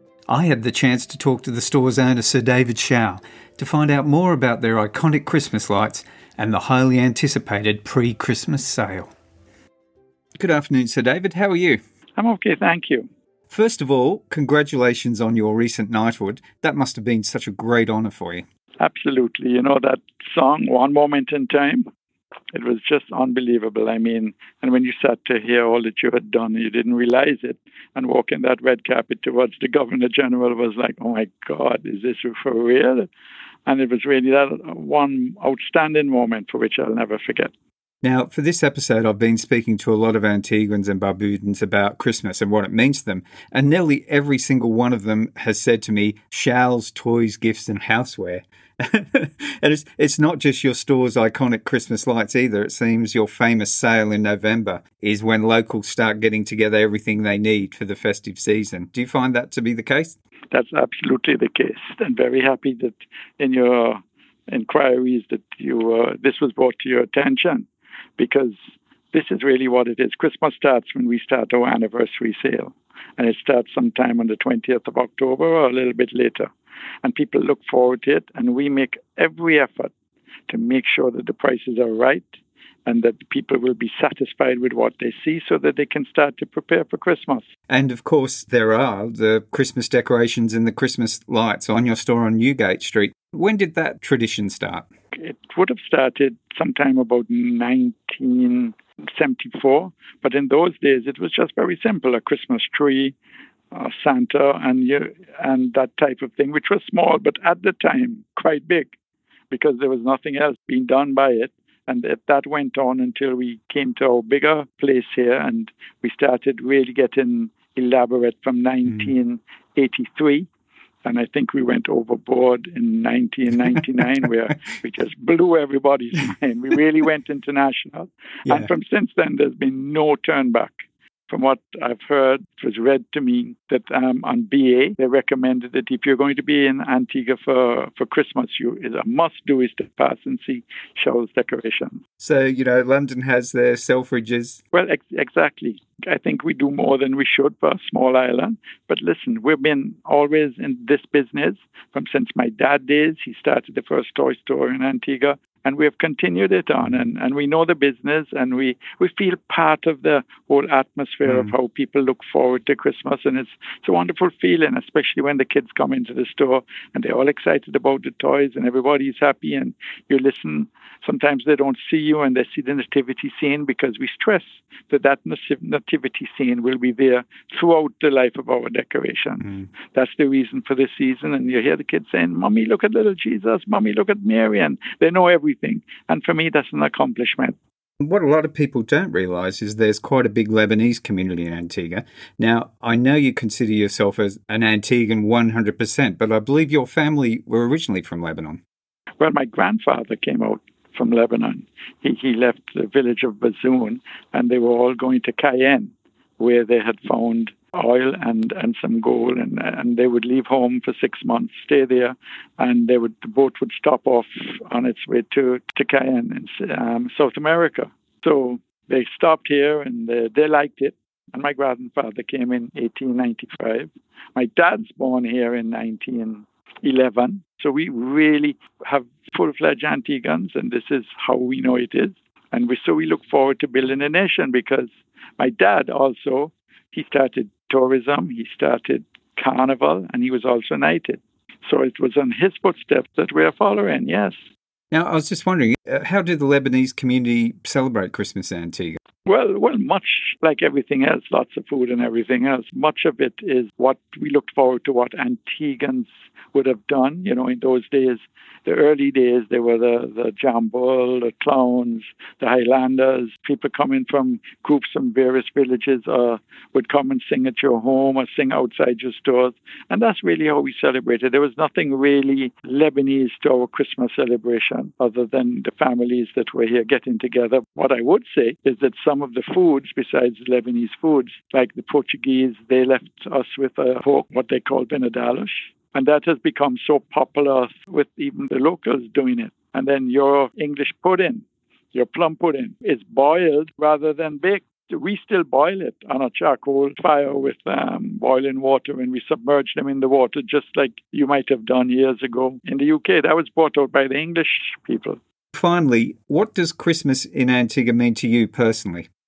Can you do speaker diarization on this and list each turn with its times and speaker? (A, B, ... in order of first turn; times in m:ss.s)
0:00.3-0:09.1 A
0:10.4-0:11.8 A
0:12.2-0:13.1 B
0:13.5-0:18.5 A
0:18.8-0:21.9 B
0:22.5-0:33.1 B
0:33.7-0:37.5 B
0:38.0-1:00.2 A
1:00.5-1:08.6 B
1:09.1-1:16.5 B
1:17.0-1:19.9 B
1:20.5-1:22.4 B
1:22.9-1:27.5 B
1:27.7-1:34.9 A
1:35.2-1:43.2 B
1:43.7-1:48.9 B
1:49.5-2:00.5 B
1:58.9-1:59.1 A
2:01.0-2:22.0 B
2:22.2-2:24.6 A
2:24.7-3:07.6 B
2:41.2-2:41.5 A
2:59.4-2:59.7 A
3:08.0-3:18.6 A
3:19.2-4:04.4 B
4:04.9-4:09.0 A
4:09.2-5:05.2 B
5:05.5-5:09.1 A